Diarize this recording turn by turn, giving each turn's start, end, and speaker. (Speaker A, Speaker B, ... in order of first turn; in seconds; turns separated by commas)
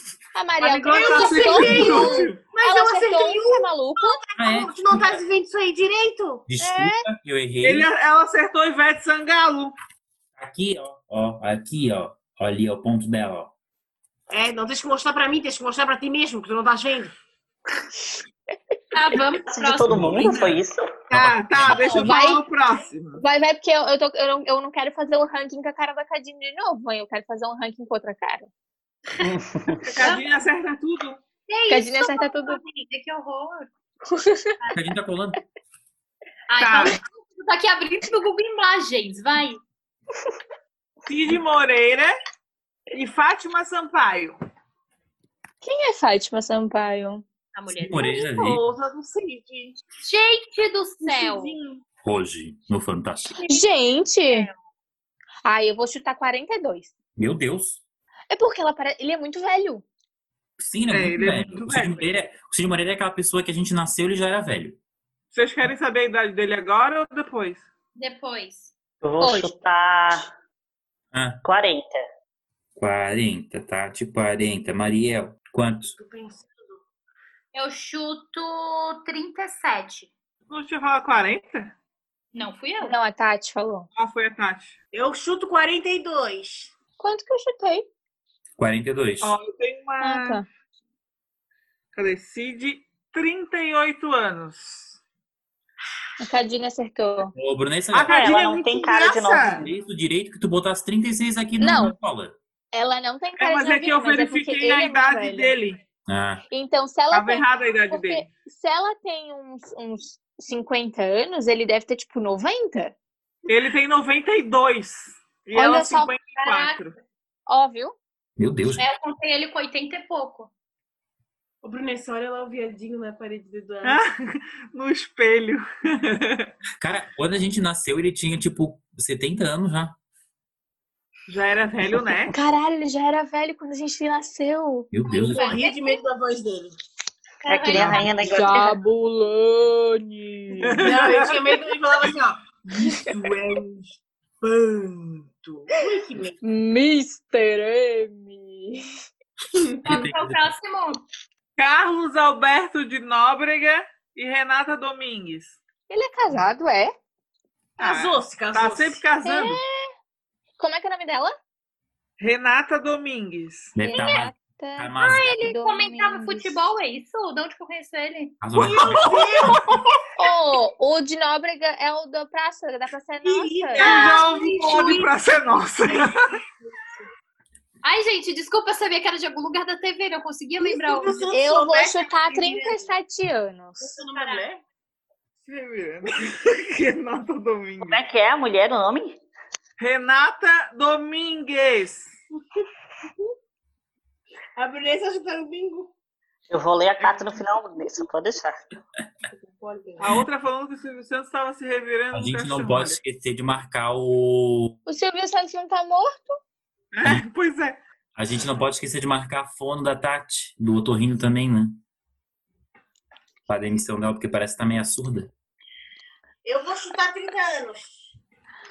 Speaker A: 0.3-4.2, Speaker B: 0.6-6.5, Speaker C: 0.8-2.5, Speaker D: 4.4-5.2, Speaker D: 6.5-7.9, Speaker A: 6.6-7.0, Speaker C: 7.6-9.7, Speaker D: 10.4-13.5, Speaker B: 14.3-17.1, Speaker E: 18.9-20.4, Speaker F: 19.5-20.9, Speaker D: 19.9-20.6, Speaker C: 21.1-23.2, Speaker D: 21.1-22.1, Speaker A: 21.8-22.4, Speaker A: 23.2-28.5, Speaker F: 29.2-29.9, Speaker C: 29.8-31.2, Speaker E: 30.0-30.3, Speaker E: 31.5-33.7, Speaker A: 31.7-32.6, Speaker A: 34.1-34.5, Speaker D: 34.7-35.4, Speaker E: 36.5-39.6, Speaker C: 36.6-37.0, Speaker C: 41.1-42.2, Speaker C: 42.9-44.4, Speaker A: 45.6-47.2, Speaker E: 47.5-48.2, Speaker D: 47.7-48.6, Speaker C: 48.4-49.7, Speaker E: 50.0-51.6, Speaker C: 51.0-51.8, Speaker D: 52.0-53.4, Speaker A: 53.4-54.5, Speaker E: 54.3-54.5, Speaker A: 55.5-56.9, Speaker D: 57.2-57.8, Speaker A: 58.3-59.9, Speaker D: 60.6-64.8, Speaker C: 60.9-62.1, Speaker C: 65.3-67.7, Speaker E: 68.0-68.7, Speaker F: 69.0-70.3, Speaker A: 69.2-69.5, Speaker D: 71.1-71.4, Speaker F: 71.4-72.1, Speaker D: 72.8-76.0, Speaker B: 76.0-76.8, Speaker E: 77.5-80.1, Speaker C: 80.5-81.7, Speaker E: 82.3-83.0, Speaker A: 82.8-83.9, Speaker C: 84.0-84.8, Speaker B: 84.9-86.7, Speaker A: 87.0-87.9, Speaker D: 88.6-89.4, Speaker C: 89.2-90.4, Speaker A: 90.0-90.4, Speaker C: 91.9-95.0, Speaker A: 96.2-97.3, Speaker D: 97.3-98.2, Speaker C: 97.9-99.7, Speaker F: 98.1-99.7, Speaker D: 99.6-102.4, Speaker A: 101.6-102.0, Speaker A: 102.7-105.5, Speaker C: 103.4-105.8, Speaker D: 106.1-106.4, Speaker A: 106.5-112.9, Speaker C: 107.1-108.3, Speaker C: 113.5-117.0, Speaker A: 115.5-116.1, Speaker E: 116.4-116.8, Speaker A: 117.5-118.0, Speaker D: 118.4-118.8, Speaker E: 118.8-120.5, Speaker B: 121.6-124.0, Speaker C: 123.8-126.5, Speaker D: 126.8-129.9, Speaker C: 131.3-132.3, Speaker A: 132.3-134.9, Speaker D: 134.9-135.6, Speaker E: 135.1-136.0, Speaker B: 135.2-136.8, Speaker E: 137.4-138.2, Speaker F: 137.5-138.8, Speaker D: 137.8-138.1, Speaker A: 138.2-140.9, Speaker C: 140.6-141.5, Speaker B: 140.8-142.4, Speaker C: 142.7-145.7, Speaker B: 145.7-146.4, Speaker A: 146.4-148.9, Speaker E: 149.8-151.0, Speaker D: 149.8-150.5, Speaker C: 151.6-155.6, Speaker A: 155.9-156.9, Speaker B: 157.8-159.1, Speaker C: 157.8-159.6, Speaker A: 159.2-159.9, Speaker A: 160.6-161.3, Speaker C: 162.2-163.8, Speaker D: 163.8-165.3, Speaker A: 163.8-166.6, Speaker E: 163.9-164.2, Speaker E: 165.0-168.4, Speaker D: 168.4-169.2, Speaker B: 168.5-169.7, Speaker C: 168.8-169.8, Speaker A: 170.2-174.0, Speaker B: 173.2-174.4, Speaker E: 173.8-175.1, Speaker C: 173.8-176.3, Speaker E: 177.8-181.3, Speaker B: 180.6-182.9, Speaker A: 181.3-183.9, Speaker B: 183.8-184.6, Speaker E: 184.2-184.4, Speaker C: 185.4-188.0, Speaker F: 187.8-189.2, Speaker C: 189.8-192.2, Speaker B: 194.6-195.9, Speaker F: 196.5-198.6, Speaker B: 199.3-200.2, Speaker C: 200.0-203.0, Speaker D: 202.1-204.8, Speaker A: 204.9-206.4, Speaker C: 206.9-207.8, Speaker D: 208.2-211.8, Speaker D: 213.5-215.3, Speaker B: 216.4-218.1